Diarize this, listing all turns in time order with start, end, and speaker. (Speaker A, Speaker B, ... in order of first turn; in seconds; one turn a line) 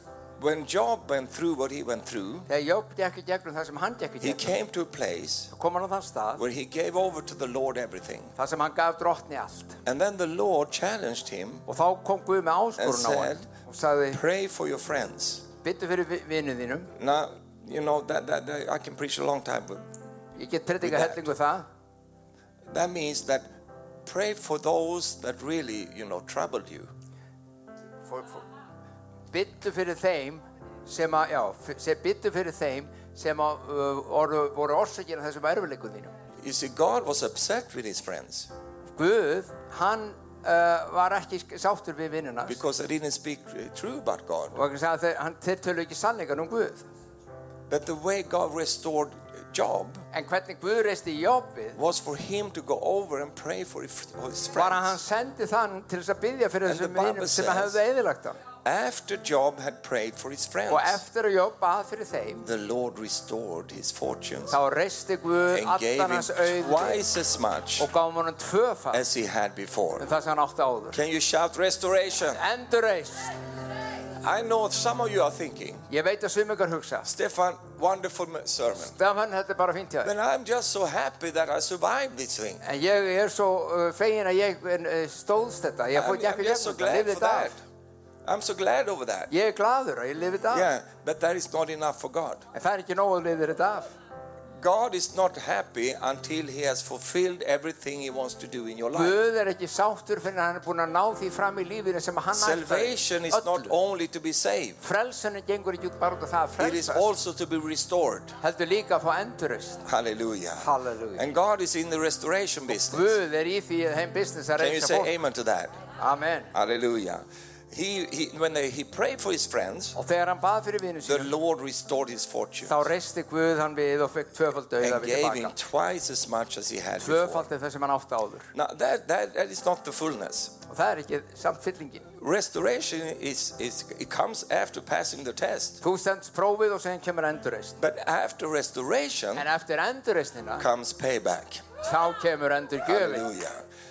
Speaker A: 0.4-2.5
Speaker B: 2.5-4.6
Speaker A: 4.2-5.5
Speaker B: 5.5-6.4
Speaker A: 6.4-8.3
Speaker B: 8.4-9.8
Speaker A: 9.8-11.6
Speaker B: 11.7-14.2
Speaker A: 12.8-13.5
Speaker A: 14.1-15.5
Speaker B: 15.6-16.9
Speaker A: 16.9-19.9
Speaker B: 20.4-21.6
Speaker A: 20.8-21.3
Speaker A: 22.7-23.5
Speaker A: 24.0-26.9
Speaker B: 28.1-28.4
Speaker B: 29.3-36.1
Speaker A: 36.4-38.5
Speaker B: 39.0-42.6
Speaker A: 42.5-44.6
Speaker B: 44.5-46.9
Speaker A: 47.7-50.0
Speaker B: 50.1-51.8
Speaker A: 51.8-55.0
Speaker B: 54.5-58.4
Speaker A: 56.6-57.8
Speaker A: 58.6-61.0
Speaker B: 60.7-62.5
Speaker A: 62.4-64.6
Speaker B: 64.5-67.1
Speaker A: 65.5-67.9
Speaker B: 67.8-69.0
Speaker A: 68.9-70.0
Speaker B: 70.0-71.0
Speaker A: 70.9-72.4
Speaker B: 72.3-73.3
Speaker A: 74.2-75.9
Speaker B: 75.9-77.1
Speaker A: 77.0-79.0
Speaker B: 78.8-80.1
Speaker A: 80.0-82.6
Speaker B: 82.6-87.5
Speaker A: 85.9-87.6
Speaker A: 88.2-89.3
Speaker B: 89.3-90.7
Speaker A: 90.5-92.4
Speaker B: 92.5-93.9
Speaker A: 94.6-99.2
Speaker B: 98.9-103.7
Speaker A: 102.3-104.8
Speaker B: 104.8-107.1
Speaker A: 106.6-108.4
Speaker B: 108.4-109.8
Speaker A: 109.8-113.2
Speaker B: 110.6-111.3
Speaker B: 112.8-115.1
Speaker A: 114.6-115.8
Speaker B: 116.0-116.5
Speaker A: 116.5-120.0
Speaker B: 120.0-121.3
Speaker A: 121.0-122.9
Speaker B: 122.7-125.5
Speaker A: 124.8-127.5
Speaker B: 127.0-128.5
Speaker A: 128.5-130.6
Speaker B: 130.7-132.1
Speaker A: 132.2-135.8
Speaker B: 135.8-137.8
Speaker A: 137.8-139.5
Speaker B: 139.3-140.7
Speaker A: 140.6-141.6
Speaker B: 141.8-143.2
Speaker A: 142.8-143.6